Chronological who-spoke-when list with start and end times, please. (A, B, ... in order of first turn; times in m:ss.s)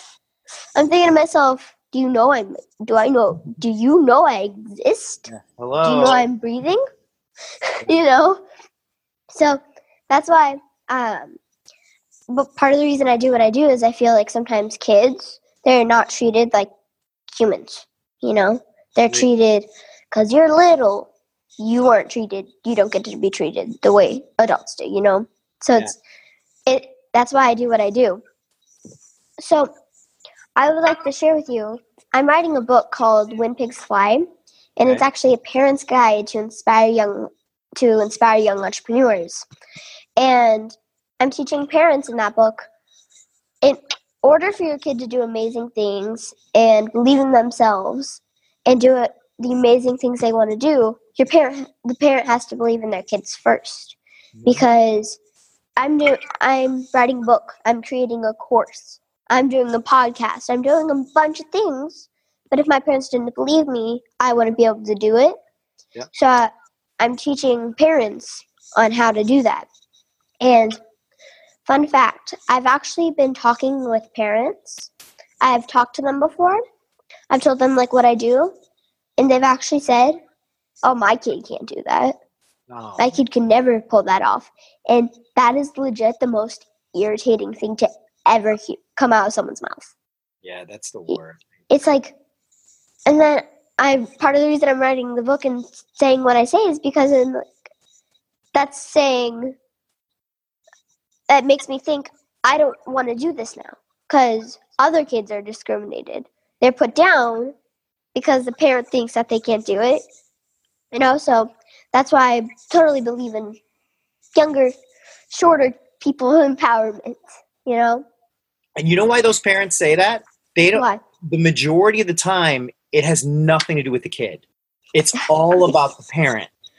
0:00.8-0:05.3 A
0:05.3-0:06.2 B
0:05.8-0:06.8 A
0:07.7-0:08.4 A
0:09.3-0:11.4 A
0:12.3-0:16.7 A
0:17.3-0:26.0 A
0:26.7-0:28.2 A
0:29.4-0:29.7 A
0:30.6-0:39.4 A
0:40.2-0:42.7 A
0:43.6-0:54.0 A
0:54.4-0:54.6 B
0:54.5-0:55.2 A
0:55.8-1:05.4 A
1:06.1-1:09.7 A
1:10.4-1:10.8 A
1:11.6-1:14.9 A
1:15.4-1:16.6 A
1:17.3-1:18.5 A
1:19.2-1:20.2 A
1:20.8-1:22.2 A
1:22.7-1:23.2 B
1:23.0-1:29.9 A
1:30.4-1:31.4 B
1:31.7-1:32.2 A
1:33.1-1:37.6 A
1:38.5-1:39.6 A
1:41.3-1:47.5 A
1:48.2-1:50.0 A
1:50.9-1:53.6 A
1:54.4-1:54.8 A
1:55.3-1:58.0 A
1:58.8-2:04.4 B
2:00.8-2:01.0 A
2:04.9-2:06.5 B